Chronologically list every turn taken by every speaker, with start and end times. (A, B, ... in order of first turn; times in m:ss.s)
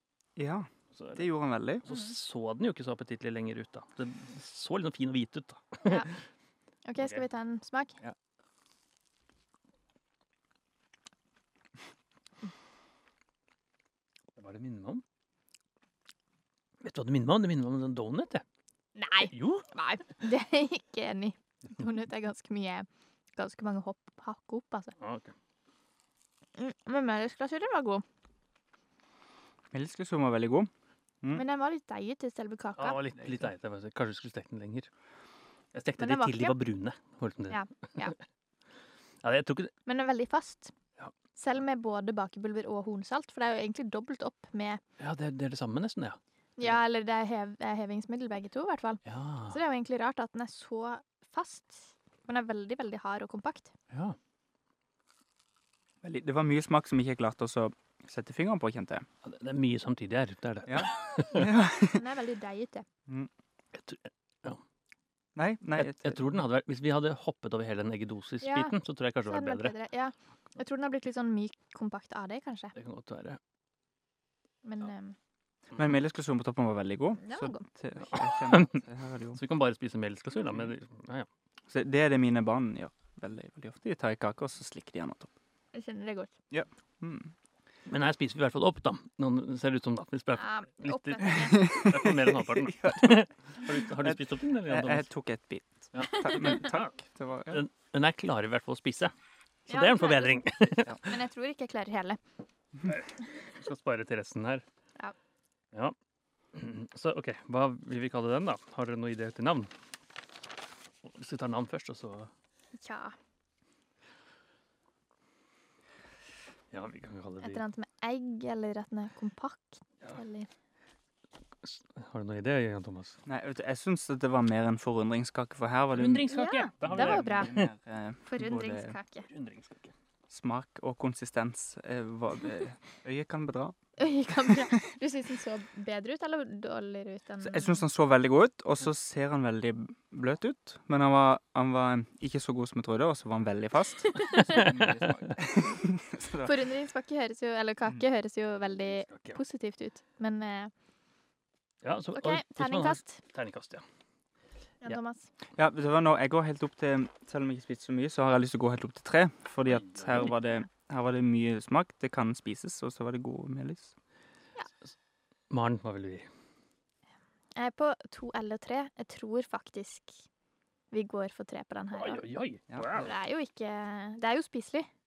0:00.4-0:01.8 A
0:00.9-0:01.2 B
0:01.8-0:06.1 B
0:05.8-0:06.1 C
0:06.8-0:08.0 C
0:14.4-0:15.0 B
0:16.8-0:18.4 B
0:19.0-0:24.9 C
0:19.2-0:19.7 B
0:25.0-0:25.3 B
0:26.6-0:28.0 C
0:29.7-0:30.7 A
0:31.3-0:33.0 C
0:32.8-0:34.9 B
0:35.7-0:38.1 B
0:36.0-0:36.6 C
0:37.5-0:38.1 C
0:39.2-0:39.7 B
0:39.8-0:40.7 C
0:41.4-0:44.8 C
0:45.0-0:46.8 B
0:46.6-0:53.7 C
0:49.0-0:49.6 B
0:53.9-0:54.2 B
0:56.0-0:59.0 A
0:59.2-1:01.5 B
1:00.7-1:02.0 A
1:01.9-1:02.8 C
1:03.7-1:04.6 B
1:05.4-1:06.2 A
1:05.8-1:09.7 B
1:08.4-1:08.7 C
1:09.2-1:12.7 C
1:12.7-1:13.4 B
1:14.6-1:15.2 C
1:15.7-1:19.4 A
1:17.2-1:17.6 C
1:18.1-1:18.8 B
1:19.3-1:21.3 B
1:21.7-1:25.3 A
1:25.7-1:26.3 C
1:26.5-1:27.3 A
1:27.8-1:35.1 B
1:30.4-1:31.8 C
1:31.4-1:33.2 A
1:34.0-1:37.6 A
1:35.9-1:36.9 B
1:37.5-1:39.1 B
1:39.7-1:41.0 B
1:39.7-1:40.4 C
1:41.0-1:42.2 C
1:42.8-1:44.6 B
1:46.5-1:49.7 B
1:51.0-1:52.3 B
1:52.8-1:53.2 C
1:56.7-1:57.6 B
1:57.4-2:00.5 C
2:01.6-2:03.2 B
2:03.2-2:09.0 A
2:05.9-2:07.7 B
2:06.3-2:07.6 C
2:08.2-2:09.3 C
2:09.3-2:09.9 B
2:10.3-2:13.8 A
2:14.0-2:17.8 C
2:17.4-2:26.5 A
2:24.1-2:24.7 C
2:24.4-2:25.2 B
2:26.4-2:30.7 C
2:29.0-2:29.4 B
2:31.8-2:33.8 B
2:32.1-2:33.2 C
2:34.8-2:35.3 C
2:35.6-2:43.9 A
2:39.7-2:40.3 B
2:45.5-2:46.3 B
2:47.5-2:50.2 C
2:50.9-2:52.2 C
2:52.0-2:53.1 B
2:52.9-2:54.9 C